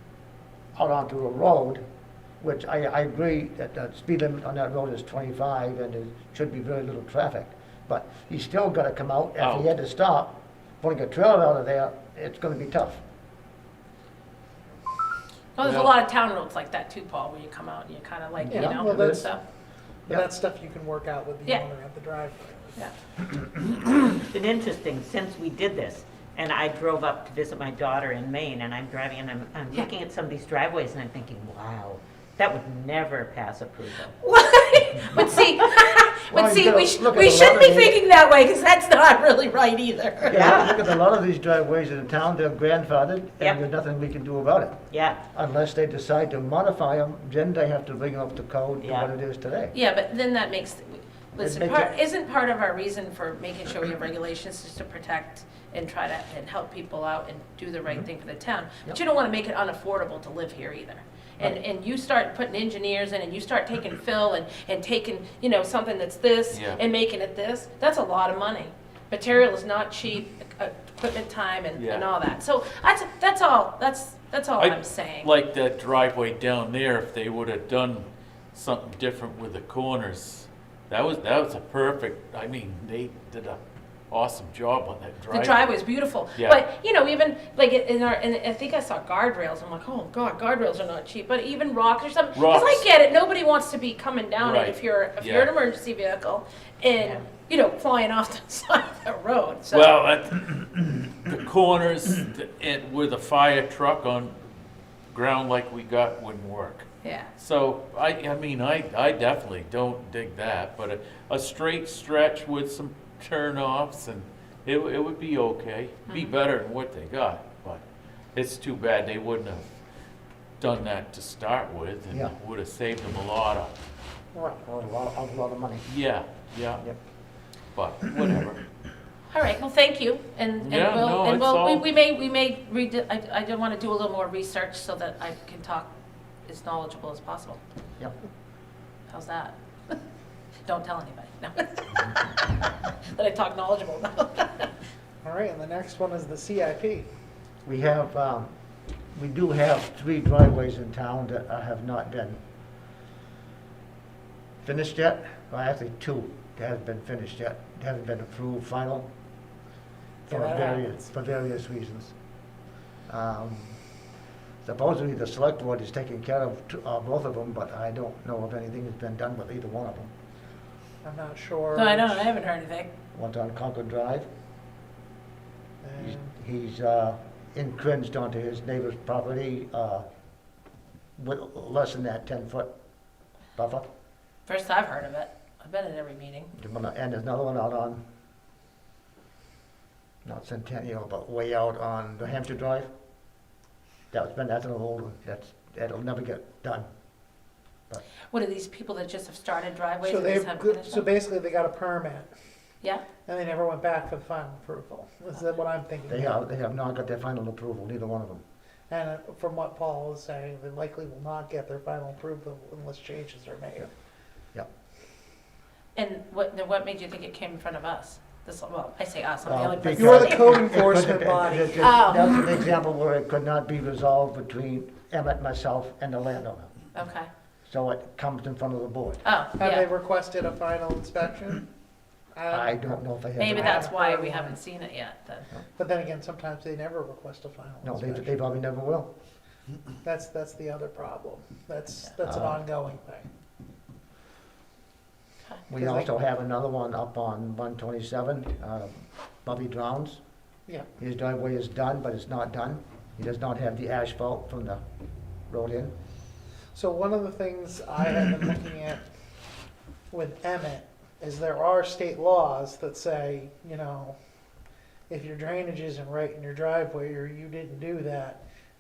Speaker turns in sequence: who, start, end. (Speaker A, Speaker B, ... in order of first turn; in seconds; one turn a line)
Speaker A: 0.8-1.8
Speaker A: 2.4-13.0
Speaker B: 9.4-9.7
Speaker C: 15.6-19.4
Speaker B: 15.6-15.9
Speaker A: 18.4-19.3
Speaker D: 18.5-19.3
Speaker D: 20.1-22.8
Speaker E: 23.9-34.1
Speaker C: 34.1-40.6
Speaker A: 36.3-38.0
Speaker E: 40.3-40.8
Speaker A: 40.3-49.8
Speaker E: 44.9-45.2
Speaker E: 48.8-49.1
Speaker C: 49.7-75.3
Speaker A: 51.4-51.9
Speaker B: 66.5-66.8
Speaker B: 71.8-72.1
Speaker B: 74.6-85.7
Speaker C: 85.3-100.0
Speaker B: 92.3-92.9
Speaker B: 94.4-95.5
Speaker B: 99.7-104.4
Speaker B: 105.1-117.8
Speaker C: 107.0-107.3
Speaker C: 116.1-116.3
Speaker B: 118.3-119.8
Speaker B: 120.6-123.7
Speaker A: 122.1-122.3
Speaker D: 124.3-124.6
Speaker A: 124.6-125.9
Speaker B: 125.9-126.8
Speaker B: 127.7-128.6
Speaker C: 129.3-135.9
Speaker B: 130.6-131.8
Speaker C: 136.5-137.6
Speaker C: 139.1-140.0
Speaker C: 140.7-144.7
Speaker D: 145.2-147.1
Speaker A: 147.7-148.5
Speaker A: 149.1-152.4
Speaker A: 154.6-159.1
Speaker D: 160.3-161.1
Speaker A: 160.3-162.1
Speaker A: 163.1-163.8
Speaker A: 164.6-170.1
Speaker D: 171.0-172.3
Speaker C: 171.8-172.9
Speaker A: 173.1-174.3
Speaker D: 175.8-176.3
Speaker A: 176.0-180.0
Speaker A: 181.2-182.7
Speaker A: 183.6-183.9
Speaker C: 184.5-186.5
Speaker A: 186.6-188.0
Speaker A: 190.2-192.9
Speaker A: 194.1-196.9
Speaker C: 198.3-201.1
Speaker D: 200.0-202.3
Speaker D: 203.3-206.4
Speaker A: 206.1-208.4
Speaker D: 208.9-213.9
Speaker C: 216.0-220.5
Speaker A: 219.4-226.8
Speaker D: 220.0-221.9
Speaker C: 221.8-222.4
Speaker C: 226.9-227.3
Speaker A: 227.7-229.2
Speaker C: 229.2-229.9
Speaker D: 229.6-231.7
Speaker D: 232.3-233.0
Speaker A: 232.5-233.8
Speaker C: 233.4-235.5
Speaker D: 233.5-234.6
Speaker D: 235.8-238.4
Speaker A: 237.8-239.1
Speaker D: 240.0-243.3
Speaker A: 242.2-242.6
Speaker A: 245.7-250.2
Speaker D: 245.8-246.1
Speaker A: 251.0-254.8
Speaker A: 255.5-255.9
Speaker D: 256.7-259.0
Speaker D: 260.1-264.2
Speaker D: 265.1-268.4